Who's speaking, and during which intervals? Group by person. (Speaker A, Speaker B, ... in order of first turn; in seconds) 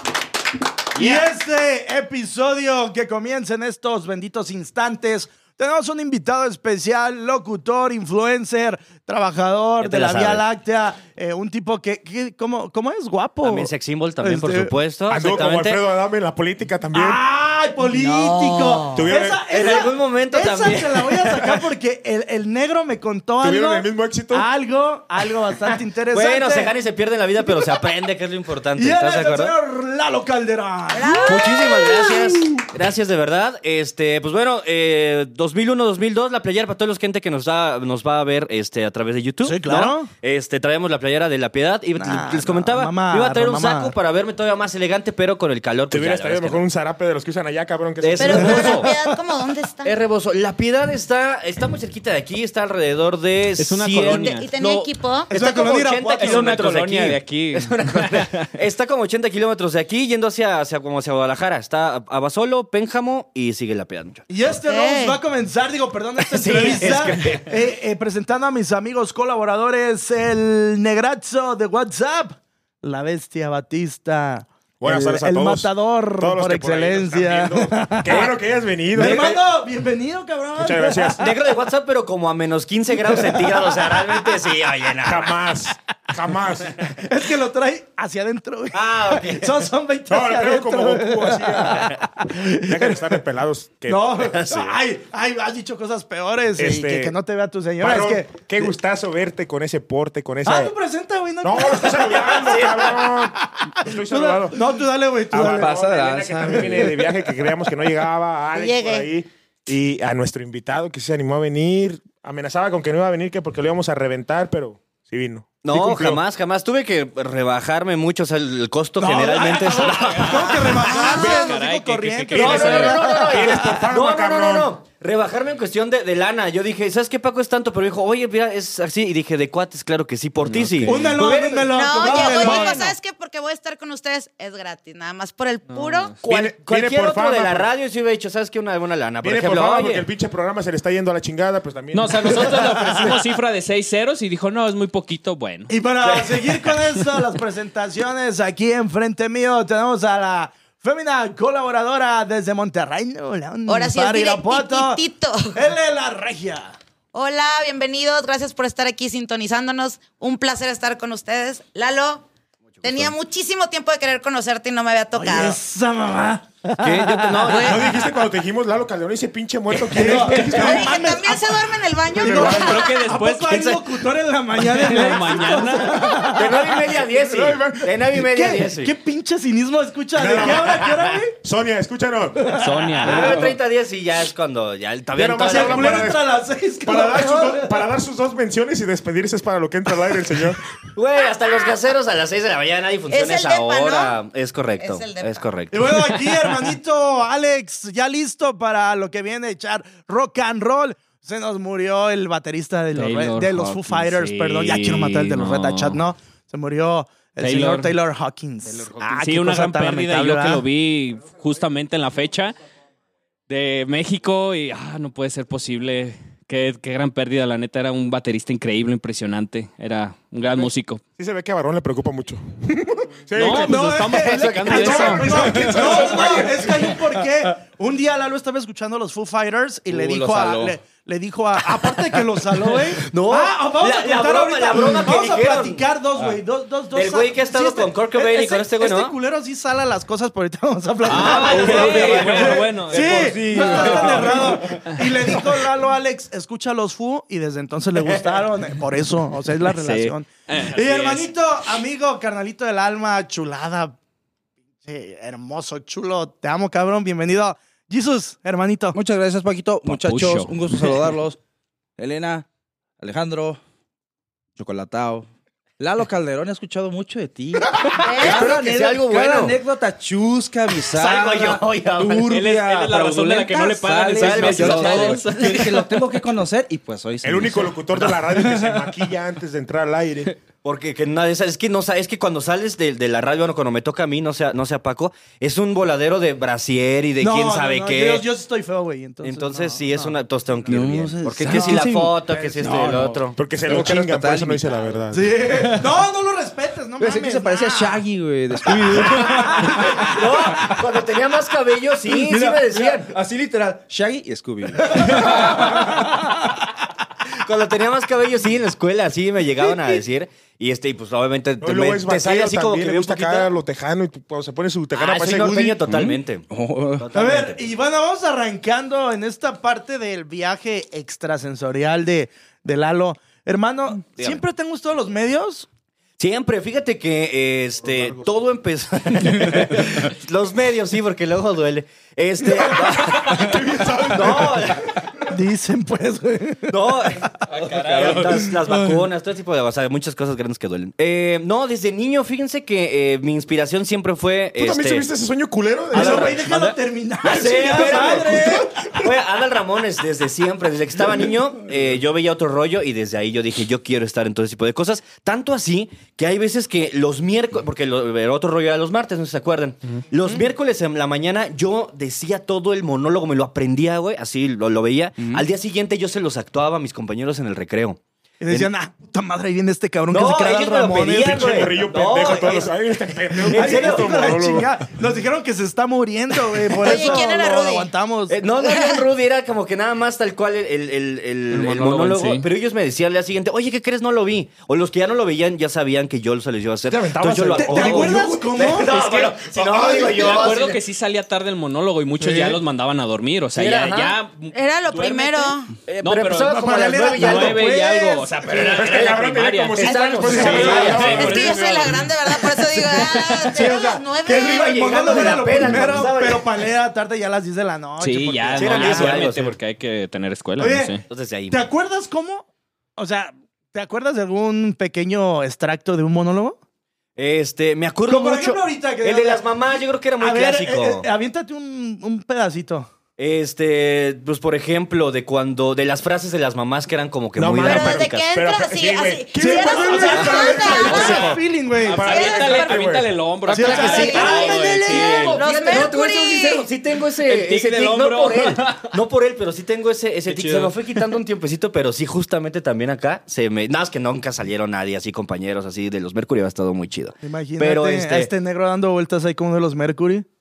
Speaker A: 0.9-13.7, 14.2-14.7, 16.9-26.7, 28.7-31.6, 39.4-40.1, 42.0-43.9, 55.3-56.5, 64.3-78.3, 78.9-81.3, 83.3-84.0, 86.8-93.2, 93.9-98.7, 100.4-105.8, 106.4-106.9, 119.0-123.8, 130.8-132.9, 145.7-155.0, 155.5-156.8, 165.1-167.8, 169.9-176.7, 178.1-181.3, 182.4-183.3, 185.4-187.8, 195.7-210.6, 223.4-254.0, 254.8-258.9, 268.2-269.5, 287.2-290.8, 291.4-292.9, 295.1-298.0, 298.7-300.2, 302.3-302.6, 304.8-306.5, 317.1-325.7, 335.3-337.2, 345.9-348.7, 368.4-371.6, 373.4-378.4, 387.5-388.9, 392.2-392.5, 396.4-398.3, 400.2-400.8, 402.7-409.2, 410.6-412.4, 413.0-416.6, 418.1-419.4, 420.2-422.9, 429.3-432.0, 433.5-435.1, 447.2-450.2
Speaker B: 1.0-1.2, 53.6-54.5, 56.2-58.5, 119.8-123.2, 130.4-131.2, 135.7-136.1, 141.9-147.0, 172.5-173.6, 174.6-176.1, 182.5-183.5, 202.9-206.0, 207.4-207.9, 208.7-212.6, 213.5-221.0, 223.3-225.8, 229.9-230.7, 241.0-245.0, 249.7-251.3, 259.9-260.9, 272.2-275.9, 337.5-338.4, 381.5-382.5, 390.1-396.6, 397.1-401.6, 408.0-411.0, 430.8-435.8, 437.1-438.9, 440.3-440.8
Speaker C: 9.8-10.4, 13.4-15.8, 19.5-21.6, 26.1-29.5, 31.1-46.6, 48.0-49.0, 49.8-64.3, 66.2-67.5, 78.1-78.3, 78.9-79.4, 81.2-85.3, 88.7-89.6, 94.2-94.8, 102.4-102.9, 115.6-120.9, 122.3-132.9, 136.2-140.0, 162.8-163.1, 166.8-167.9, 169.9-170.6, 173.5-173.8, 174.8-175.6, 176.3-178.9, 183.0-186.1, 190.9-195.9, 224.3-224.9, 232.7-235.8, 236.9-239.2, 241.1-244.4, 248.0-248.4, 268.1-269.6, 270.8-272.9, 274.1-275.5, 280.6-288.3, 289.2-293.4, 299.6-303.1, 305.3-305.8, 307.3-313.5, 314.9-316.5, 317.0-317.6, 326.2-335.0, 336.7-345.1, 345.9-368.7, 370.1-372.7, 373.3-374.1, 376.9-377.2, 378.3-390.8, 393.5-394.1, 395.9-397.7, 399.8-401.5, 403.6-406.7, 408.6-409.5, 411.1-411.6, 417.2-421.1, 423.2-428.3, 433.6-448.3
Speaker D: 15.1-17.2, 18.9-19.4, 23.4-24.5, 45.9-48.9, 74.8-79.4, 80.6-81.2, 85.0-86.8, 90.1-94.3, 96.5-97.2, 97.8-100.7, 101.4-104.7, 105.3-116.2, 121.2-121.5, 122.3-124.7, 136.2-137.7, 139.2-143.2, 167.6-171.0, 172.1-172.8, 176.9-178.0, 180.1-182.6, 185.1-190.7, 221.2-227.0, 277.2-280.4, 293.4-295.4, 311.6-315.8, 332.8-335.1, 344.6-346.4, 347.7-348.9, 371.1-374.9, 386.9-390.7, 398.5-402.1, 427.4-433.1
Speaker E: 17.8-19.1, 30.9-32.3, 48.2-49.9, 54.0-55.3, 64.5-65.2, 108.5-109.1, 120.7-121.6, 131.7-136.2, 153.7-155.6, 157.1-162.3, 162.8-165.6, 170.4-172.9, 193.1-194.2, 194.8-195.4, 268.0-268.4, 376.8-377.9, 378.6-379.0, 394.5-395.8, 401.1-405.4, 427.6-431.4, 432.0-432.9, 433.5-436.7
Speaker F: 105.4-107.2, 243.2-243.6, 258.9-261.4, 262.0-262.4, 263.0-263.6, 264.6-265.3, 265.8-268.6, 269.1-277.8, 290.7-294.8, 295.5-295.9, 297.0-300.8, 302.1-306.1, 315.8-317.1